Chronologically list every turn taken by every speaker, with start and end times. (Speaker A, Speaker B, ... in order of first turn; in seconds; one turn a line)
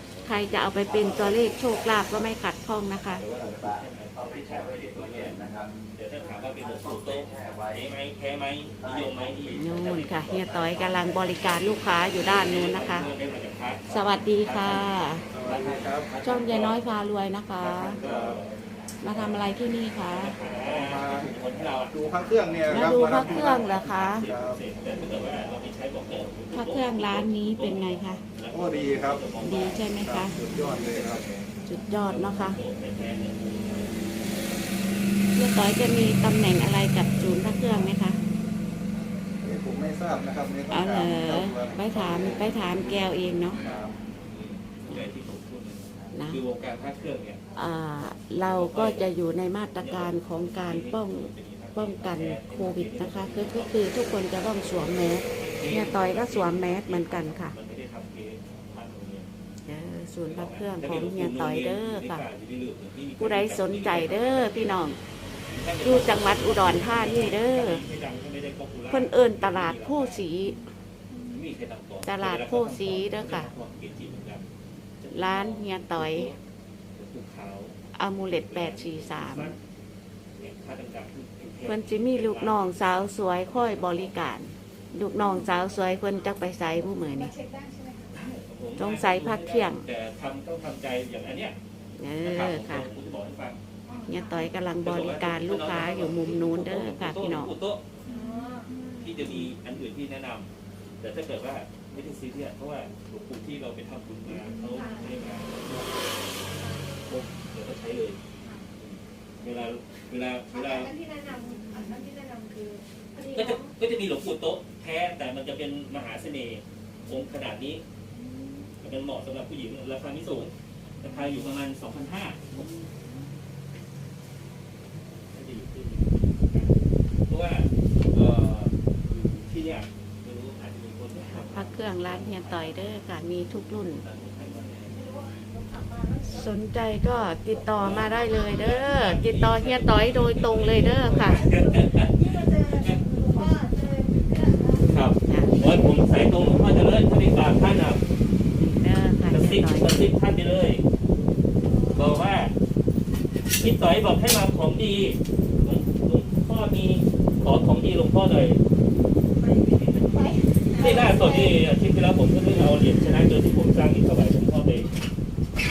Speaker A: 0.2-3.2
Speaker B: 3.1-10.8
Speaker C: 5.0-5.3
Speaker A: 9.5-13.1
Speaker B: 12.2-16.8
Speaker A: 13.9-15.2
Speaker C: 15.3-16.1
Speaker A: 16.2-18.0
Speaker C: 17.6-18.4
Speaker B: 17.8-29.8
Speaker A: 19.0-20.3
Speaker C: 20.6-21.3
Speaker C: 21.9-24.6
Speaker A: 22.7-24.3
Speaker A: 26.5-28.2
Speaker C: 28.5-29.2
Speaker A: 29.4-30.4
Speaker C: 30.0-31.3
Speaker B: 30.6-31.3
Speaker A: 31.6-32.6
Speaker B: 32.0-34.0
Speaker A: 35.3-38.2
Speaker C: 39.4-42.8
Speaker A: 40.7-43.6
Speaker B: 43.6-47.4
Speaker C: 43.6-44.0
Speaker A: 46.1-46.4
Speaker A: 47.5-57.5
Speaker B: 48.4-49.1
Speaker B: 49.8-53.9
Speaker B: 55.3-59.3
Speaker A: 59.6-62.2
Speaker B: 60.2-64.9
Speaker A: 63.2-65.0
Speaker B: 65.5-70.3
Speaker A: 65.8-67.8
Speaker A: 68.9-70.6
Speaker D: 71.1-71.4
Speaker B: 71.3-74.5
Speaker A: 72.0-73.5
Speaker B: 75.0-76.4
Speaker A: 75.1-76.3
Speaker B: 76.9-77.8
Speaker A: 77.9-79.6
Speaker B: 78.3-79.6
Speaker B: 80.4-84.2
Speaker A: 81.6-87.3
Speaker D: 85.2-88.1
Speaker B: 88.1-91.6
Speaker A: 88.8-89.8
Speaker A: 92.0-92.9
Speaker B: 92.2-93.6
Speaker D: 93.8-94.5
Speaker A: 94.1-97.5
Speaker B: 94.8-97.8
Speaker D: 98.0-99.1
Speaker A: 98.1-98.4
Speaker B: 99.0-105.9
Speaker A: 99.2-99.5
Speaker A: 104.3-104.7
Speaker D: 104.7-105.1
Speaker D: 106.5-106.9
Speaker B: 107.0-108.2
Speaker D: 108.4-108.7
Speaker B: 108.8-110.9
Speaker D: 110.5-113.7
Speaker B: 113.3-117.8
Speaker D: 118.1-118.7
Speaker B: 118.8-122.6
Speaker D: 121.0-121.3
Speaker D: 122.5-123.1
Speaker B: 125.3-132.9
Speaker A: 131.3-134.0
Speaker B: 133.8-135.0
Speaker D: 134.8-136.5
Speaker A: 136.3-141.4
Speaker D: 137.2-138.8
Speaker B: 137.8-143.0
Speaker D: 141.1-144.8
Speaker A: 144.8-145.6
Speaker B: 144.8-148.0
Speaker A: 148.5-150.0
Speaker B: 149.3-150.8
Speaker D: 151.6-152.4
Speaker B: 151.9-152.5
Speaker B: 153.4-158.6
Speaker D: 159.3-161.6
Speaker B: 160.7-164.9